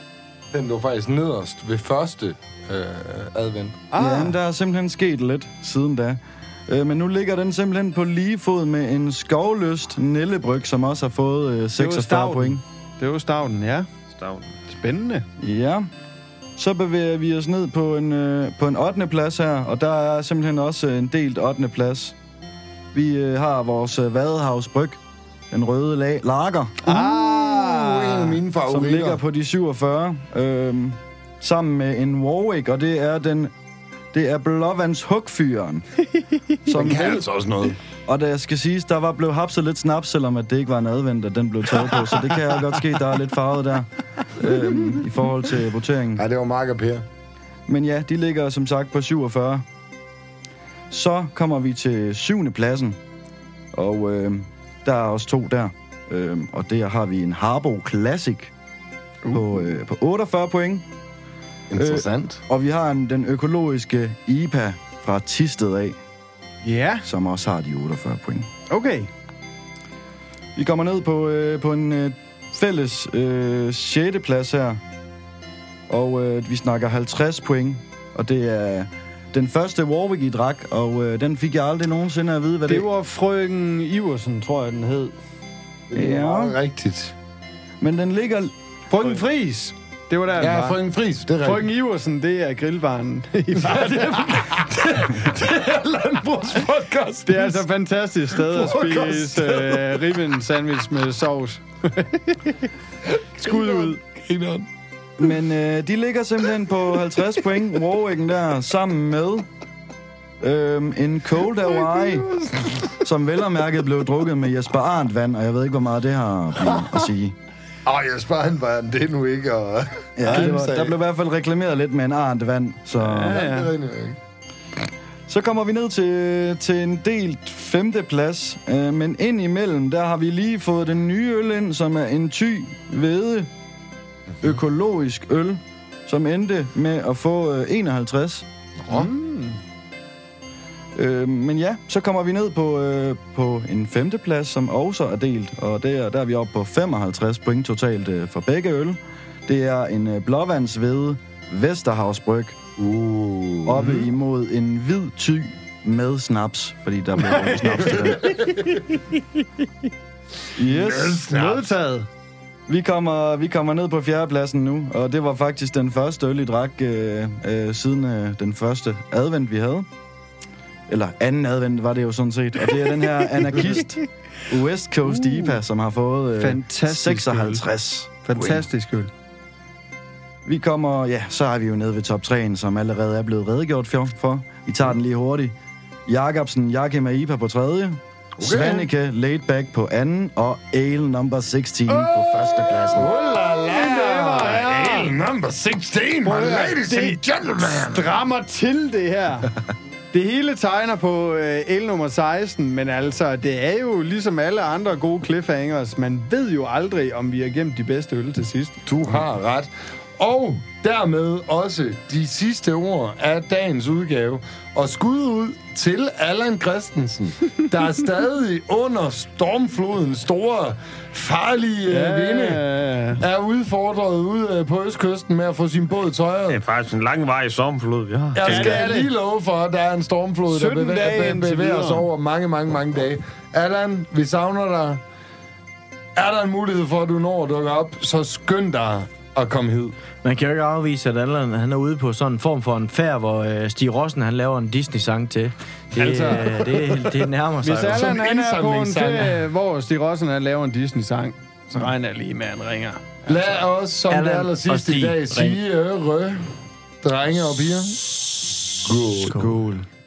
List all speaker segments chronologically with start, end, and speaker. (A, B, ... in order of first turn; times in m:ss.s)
0:00.5-0:03.9 A
0:03.9-0:04.4 B
0:04.0-0:12.6 C
0:11.8-0:13.9 B
0:14.1-0:14.5 D
0:14.6-0:15.2 B
0:15.4-0:15.9 C
0:16.6-0:22.1 C
0:22.9-0:25.0 C
0:25.5-0:26.8 C
0:26.8-0:28.4 B
0:26.8-0:29.2 A
0:28.7-0:33.5 C
0:34.1-0:35.8 C
0:36.7-0:37.2 C
0:36.7-0:37.8 A
0:38.1-0:46.2 C
0:46.2-0:47.0 A
0:47.7-0:49.6 C
0:50.9-0:53.0 C
0:53.7-0:58.5 C
0:59.2-0:59.6 B
0:59.3-1:00.8 C
1:01.7-1:02.4 A
1:01.8-1:06.0 C
1:06.6-1:07.1 B
1:07.0-1:08.5 C
1:08.7-1:09.1 B
1:10.6-1:14.8 C
1:15.9-1:22.9 C
1:22.6-1:25.1 B
1:25.9-1:27.1 A
1:25.9-1:26.5 C
1:27.8-1:28.5 C
1:28.9-1:30.8 B
1:30.4-1:31.7 A
1:31.4-1:34.8 B
1:33.5-1:37.6 A
1:37.2-1:42.7 B
1:38.3-1:40.1 A
1:43.4-1:44.7 A
1:43.4-1:44.0 B
1:45.2-1:49.5 C
1:50.4-1:52.3 C
1:51.8-1:52.7 A
1:52.9-1:57.4 C
1:57.8-2:01.0 A
2:00.2-2:03.4 C
2:03.0-2:03.7 B
2:03.3-2:04.2 A
2:05.3-2:13.5 C
2:14.4-2:18.4 C
2:18.9-2:19.6 B
2:20.9-2:32.6 C
2:32.8-2:34.0 A
2:33.6-2:38.4 C
2:37.3-2:39.0 B
2:38.2-2:38.6 A
2:40.6-2:41.2 C
2:40.6-2:41.7 A
2:41.2-2:42.1 B
2:42.7-2:49.9 C
2:50.9-2:58.6 C
2:52.7-2:53.9 B
2:55.0-2:55.6 B
2:56.3-2:57.6 B
2:58.2-2:59.1 B
3:00.4-3:05.5 C
3:06.1-3:13.1 C
3:08.4-3:08.9 A
3:11.9-3:15.1 B
3:12.9-3:18.2 A
3:16.2-3:19.5 B
3:20.1-3:29.2 B
3:28.8-3:42.6 A
3:41.9-3:43.2 B
3:43.2-3:46.6 A
3:46.5-3:48.9 D
3:48.3-3:55.0 A
3:48.4-3:49.1 B
3:50.5-3:52.1 B
3:56.1-3:59.9 A
4:00.2-4:08.1 E
4:06.0-4:06.5 B
4:06.0-4:07.1 A
4:07.6-4:13.2 B
4:07.8-4:09.4 A
4:13.2-4:16.5 A
4:14.1-4:15.6 E
4:17.0-4:18.0 A
4:18.8-4:19.5 A
4:19.3-4:19.8 B